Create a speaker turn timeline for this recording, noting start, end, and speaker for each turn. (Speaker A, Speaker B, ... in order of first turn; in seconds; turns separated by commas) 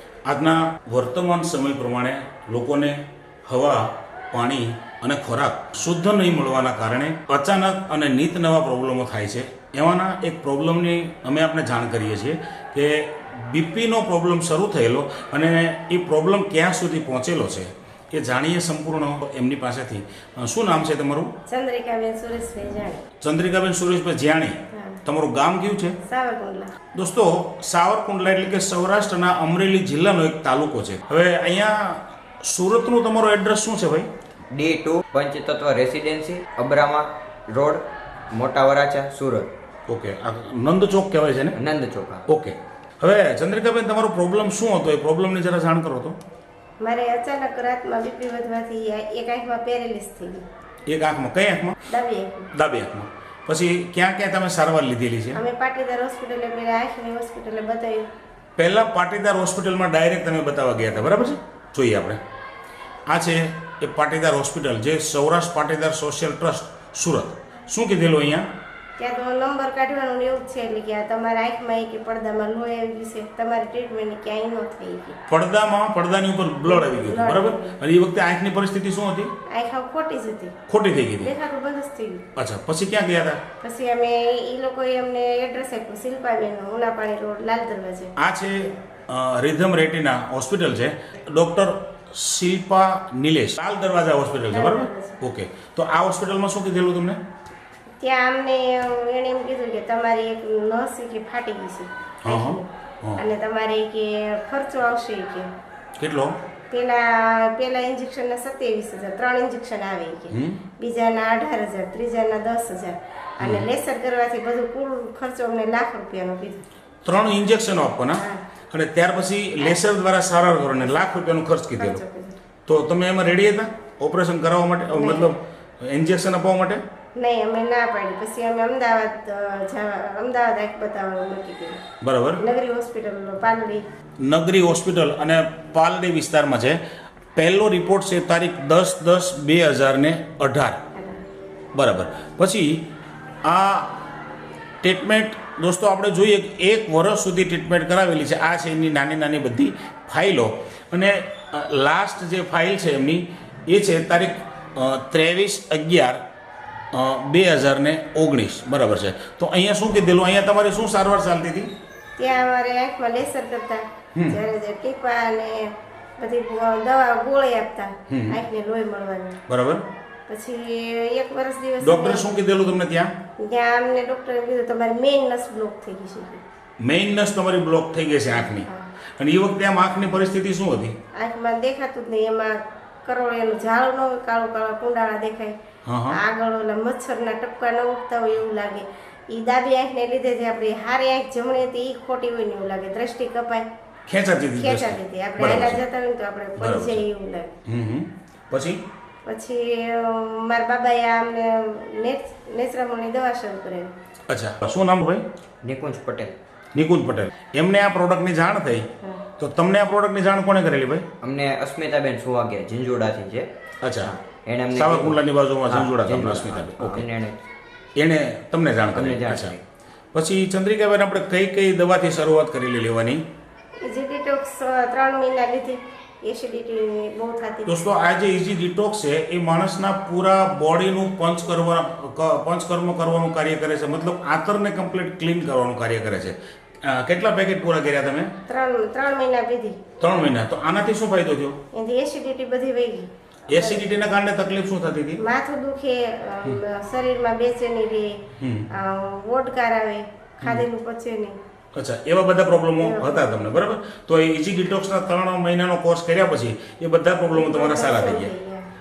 Speaker A: 0.2-21.3, Speaker B: 21.5-23.0, Speaker A: 23.2-26.0, Speaker B: 24.7-25.0, Speaker B: 26.0-26.7, Speaker A: 26.9-34.1, Speaker C: 34.5-39.5, Speaker A: 39.9-41.5, Speaker C: 41.5-42.2, Speaker A: 42.3-46.2, Speaker B: 46.8-50.4, Speaker A: 50.9-51.8, Speaker B: 51.9-52.5, Speaker A: 52.5-55.4, Speaker B: 55.3-58.1, Speaker A: 58.6-62.2, Speaker A: 63.1-68.5, Speaker B: 69.0-75.2, Speaker A: 75.3-79.3, Speaker B: 76.7-77.8, Speaker B: 79.5-80.5, Speaker A: 80.7-81.3, Speaker B: 81.2-82.2, Speaker A: 82.3-83.4, Speaker B: 83.6-88.1, Speaker A: 88.2-97.2, Speaker B: 94.5-95.2, Speaker B: 98.0-105.5, Speaker A: 102.2-103.2, Speaker A: 106.0-106.3, Speaker B: 106.7-116.6, Speaker A: 110.3-110.6, Speaker A: 113.4-113.7, Speaker A: 117.0-122.0, Speaker B: 118.2-118.4, Speaker B: 120.8-121.1, Speaker B: 121.8-122.4, Speaker A: 122.7-126.8, Speaker B: 124.9-125.3, Speaker B: 127.2-131.8, Speaker A: 132.0-132.4, Speaker B: 132.4-133.8, Speaker A: 134.2-136.8, Speaker A: 137.3-140.8, Speaker B: 140.9-141.2, Speaker A: 141.7-142.8, Speaker A: 143.4-144.0, Speaker A: 144.8-156.2, Speaker A: 156.9-161.7, Speaker B: 162.2-169.4, Speaker A: 168.1-168.4, Speaker A: 169.5-169.8, Speaker B: 170.3-172.3, Speaker A: 171.8-173.2, Speaker B: 173.4-176.4, Speaker A: 176.8-180.9, Speaker B: 178.3-178.9, Speaker B: 181.2-185.6, Speaker A: 185.8-186.2, Speaker B: 186.1-193.7, Speaker A: 194.1-195.8, Speaker B: 194.6-197.5, Speaker A: 196.6-197.0, Speaker A: 197.6-198.8, Speaker B: 199.2-203.9, Speaker A: 204.3-205.2, Speaker C: 205.6-206.3, Speaker A: 206.7-211.0, Speaker C: 211.2-213.5, Speaker A: 213.8-214.1, Speaker C: 214.0-217.4, Speaker A: 214.7-217.0, Speaker A: 218.0-219.6, Speaker C: 218.9-219.6, Speaker A: 220.1-223.2, Speaker B: 223.8-227.8, Speaker A: 227.7-238.3, Speaker B: 238.5-239.8, Speaker A: 240.0-241.6, Speaker B: 241.7-243.9, Speaker A: 243.5-245.2, Speaker B: 245.2-251.4, Speaker A: 248.4-248.7, Speaker A: 251.7-258.3, Speaker B: 252.8-253.4, Speaker B: 257.3-258.7